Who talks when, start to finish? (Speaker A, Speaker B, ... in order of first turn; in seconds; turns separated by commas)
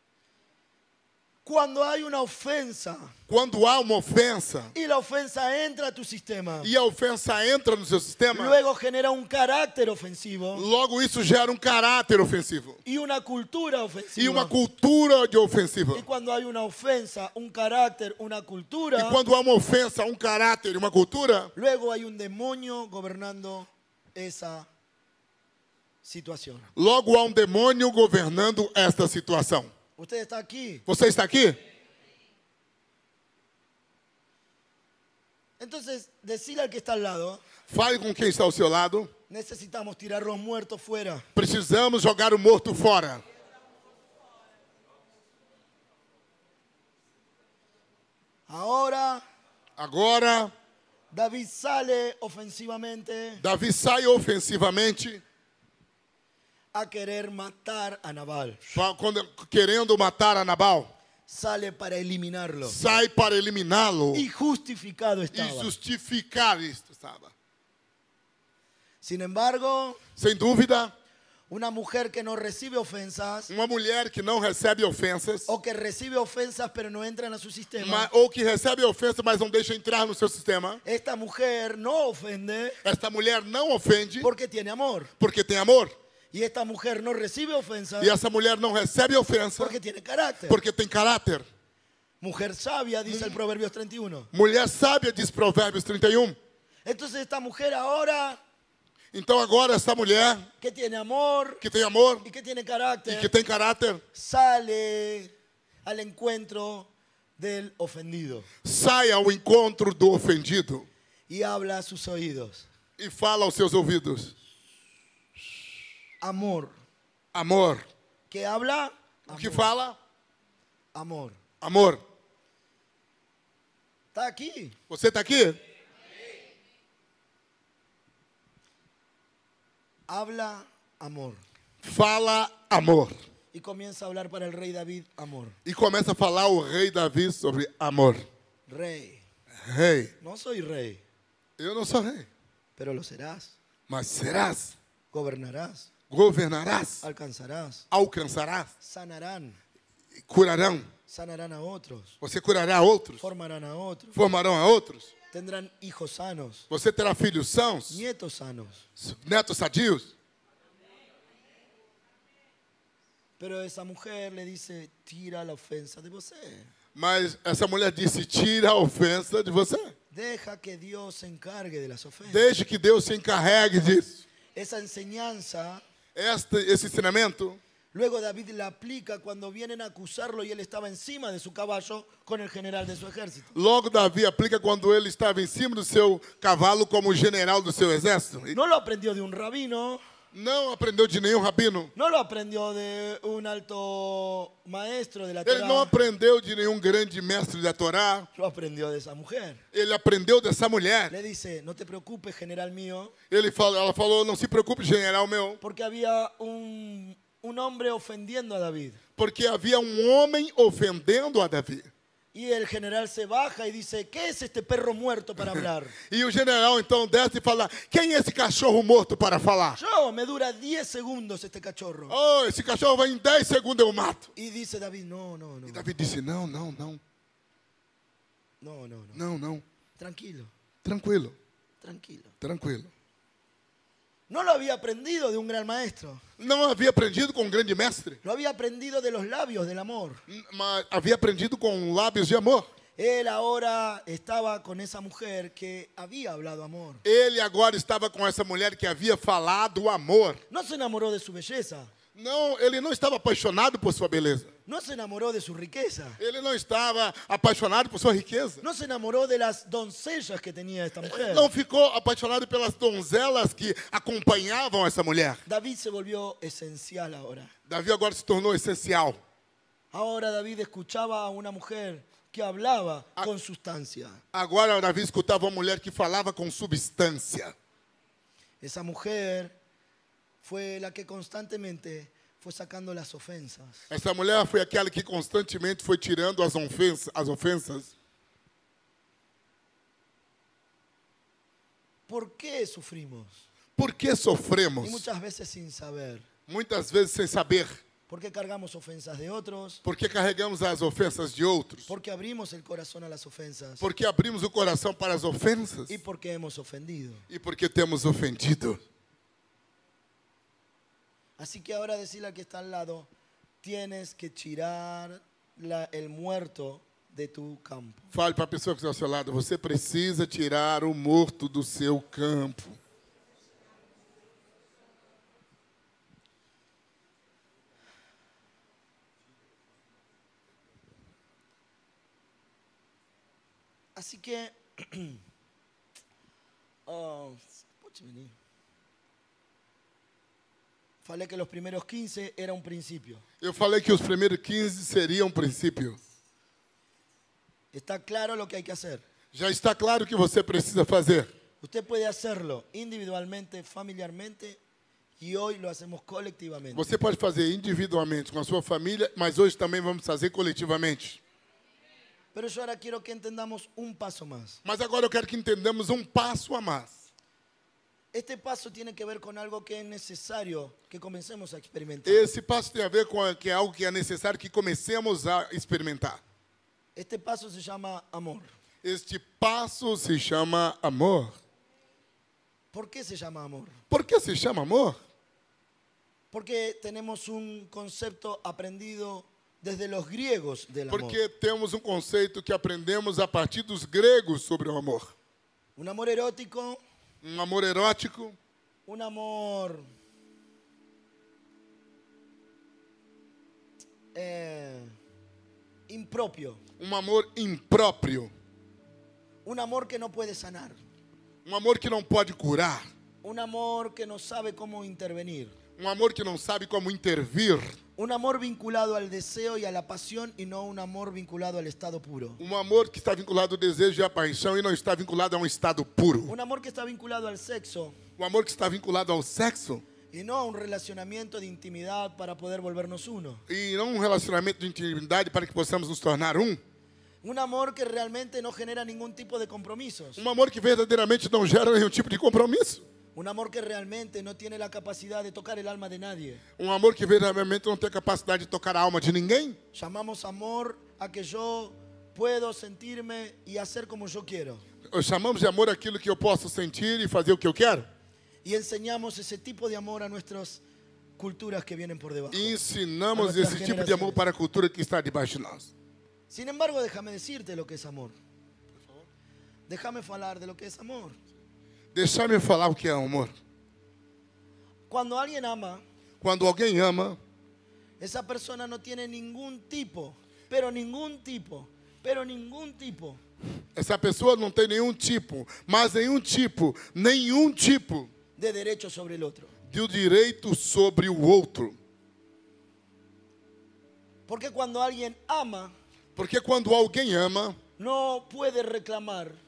Speaker A: 1.4-3.1, Speaker B: 3.3-4.7, Speaker A: 4.7-6.7, Speaker B: 6.6-8.6, Speaker A: 8.3-10.7, Speaker B: 10.5-12.8, Speaker A: 12.8-14.5, Speaker B: 14.2-16.0, Speaker A: 15.9-19.2, Speaker B: 18.9-21.5, Speaker A: 21.5-24.7, Speaker A: 26.0-26.7, Speaker B: 26.8-29.7, Speaker A: 30.0-30.8, Speaker B: 30.9-31.6, Speaker A: 35.6-37.4, Speaker B: 37.7-39.1, Speaker A: 39.3-41.2, Speaker B: 41.4-43.2, Speaker A: 48.5-49.2, Speaker B: 49.8-50.5, Speaker A: 51.1-53.4, Speaker B: 53.4-55.2, Speaker A: 56.7-58.8, Speaker B: 58.7-60.9, Speaker A: 61.3-62.8, Speaker B: 62.6-64.2, Speaker A: 64.1-65.7, Speaker B: 65.3-67.3, Speaker A: 69.0-70.0, Speaker B: 70.2-70.9, Speaker A: 71.5-73.5, Speaker B: 73.5-75.5, Speaker A: 75.5-78.1, Speaker B: 77.8-80.8, Speaker A: 80.8-82.8, Speaker B: 82.8-84.3, Speaker A: 84.2-85.1, Speaker B: 85.2-85.9, Speaker A: 86.3-88.1, Speaker B: 88.0-89.8, Speaker A: 89.6-90.6, Speaker B: 90.5-91.5, Speaker A: 92.2-94.3, Speaker B: 93.1-93.4, Speaker B: 94.3-96.4, Speaker A: 96.8-98.4, Speaker B: 99.1-100.5, Speaker A: 100.6-101.6, Speaker B: 101.6-102.2, Speaker A: 102.2-103.3, Speaker B: 103.0-104.0, Speaker A: 104.1-105.3, Speaker A: 105.8-108.5, Speaker B: 108.6-110.9, Speaker A: 111.3-112.7, Speaker B: 113.0-114.3, Speaker A: 116.2-116.7, Speaker B: 117.3-117.9, Speaker A: 118.3-119.7, Speaker B: 119.3-120.0, Speaker A: 120.9-121.4, Speaker B: 121.6-122.0, Speaker A: 124.1-124.8, Speaker B: 124.9-125.6, Speaker A: 130.1-131.4, Speaker B: 131.8-133.1, Speaker A: 133.5-135.6, Speaker B: 135.6-138.2, Speaker A: 138.7-139.2, Speaker B: 139.6-140.1, Speaker A: 140.2-141.0, Speaker B: 141.6-142.3, Speaker A: 142.8-143.5, Speaker B: 143.9-144.7, Speaker A: 145.1-145.9, Speaker B: 146.1-147.0, Speaker A: 147.0-147.8, Speaker B: 147.9-148.7, Speaker A: 148.8-149.6, Speaker B: 150.2-150.9, Speaker A: 151.1-152.2, Speaker B: 152.2-153.2, Speaker A: 153.2-154.2, Speaker B: 154.1-155.1, Speaker A: 155.3-156.6, Speaker B: 156.7-158.0, Speaker A: 157.9-158.8, Speaker B: 159.0-160.1, Speaker A: 163.4-166.7, Speaker B: 166.9-169.9, Speaker A: 170.1-172.4, Speaker B: 172.3-174.2, Speaker A: 174.5-175.8, Speaker B: 176.1-177.6, Speaker A: 177.9-183.5, Speaker B: 183.5-188.6, Speaker A: 188.5-190.0, Speaker B: 190.3-191.9, Speaker A: 191.9-195.9, Speaker B: 195.4-198.3, Speaker A: 198.3-199.6, Speaker B: 199.7-201.1, Speaker A: 201.1-203.1, Speaker B: 203.3-205.6, Speaker A: 205.6-209.0, Speaker B: 209.2-211.9, Speaker A: 212.3-215.9, Speaker B: 215.6-219.8, Speaker A: 219.8-222.2, Speaker B: 222.1-224.3, Speaker A: 224.3-225.9, Speaker B: 225.7-227.0, Speaker A: 228.6-229.2, Speaker B: 229.1-229.6, Speaker A: 230.0-230.5, Speaker B: 230.8-231.3, Speaker A: 231.8-232.3, Speaker B: 232.4-232.9, Speaker A: 234.3-236.2, Speaker B: 236.4-238.2, Speaker A: 238.2-240.2, Speaker B: 240.3-242.7, Speaker A: 243.0-247.0, Speaker B: 247.0-250.4, Speaker A: 250.5-251.9, Speaker B: 252.1-254.5, Speaker A: 254.7-256.2, Speaker B: 256.2-258.6, Speaker A: 258.6-261.5, Speaker B: 261.0-265.4, Speaker A: 265.4-267.5, Speaker B: 267.7-269.2, Speaker A: 269.9-274.2, Speaker B: 274.3-277.5, Speaker A: 278.6-279.5, Speaker A: 280.4-283.9, Speaker B: 283.9-287.9, Speaker A: 292.1-293.4, Speaker B: 293.8-295.1, Speaker A: 294.8-296.2, Speaker B: 296.5-297.8, Speaker A: 298.1-299.8, Speaker B: 299.8-301.9, Speaker A: 301.9-303.8, Speaker B: 303.8-305.9, Speaker A: 305.9-307.2, Speaker B: 307.3-308.8, Speaker A: 311.4-313.1, Speaker A: 313.6-318.1, Speaker B: 318.1-322.8, Speaker A: 333.9-335.2, Speaker A: 336.9-338.3, Speaker A: 341.0-343.2, Speaker B: 343.4-346.0, Speaker A: 347.7-349.0, Speaker B: 349.3-351.3, Speaker A: 351.6-354.6, Speaker A: 355.2-356.9, Speaker B: 356.7-361.2, Speaker A: 362.3-364.6, Speaker B: 364.6-367.1, Speaker A: 368.1-372.3, Speaker B: 372.0-376.2, Speaker A: 376.9-378.5, Speaker B: 378.8-381.3, Speaker A: 382.7-383.8, Speaker B: 383.9-385.0, Speaker A: 386.3-391.2, Speaker B: 390.9-395.1, Speaker A: 395.8-396.8, Speaker B: 397.2-398.4, Speaker A: 398.9-399.9, Speaker A: 404.1-404.9, Speaker A: 405.9-406.6, Speaker B: 406.8-408.3, Speaker A: 409.4-410.8, Speaker B: 411.4-412.9, Speaker A: 413.2-415.5, Speaker B: 415.8-417.8, Speaker A: 418.0-422.4, Speaker B: 422.4-426.3, Speaker A: 426.3-427.9, Speaker B: 428.2-429.8, Speaker A: 430.1-433.4, Speaker B: 433.5-436.6, Speaker A: 437.2-440.2, Speaker B: 440.2-442.8, Speaker A: 443.1-446.4, Speaker B: 446.6-449.6, Speaker A: 449.7-454.6, Speaker B: 454.9-457.9, Speaker A: 458.4-460.6, Speaker A: 461.2-462.6, Speaker B: 462.3-465.7, Speaker A: 463.1-464.2, Speaker A: 466.3-468.1, Speaker B: 468.8-469.1, Speaker A: 469.7-471.2, Speaker B: 471.9-473.3, Speaker A: 474.9-475.8, Speaker B: 476.2-477.2, Speaker A: 478.0-483.2, Speaker B: 483.7-488.1, Speaker A: 488.4-489.5, Speaker B: 489.7-491.8, Speaker A: 494.3-495.7, Speaker B: 496.1-497.6, Speaker A: 497.8-499.4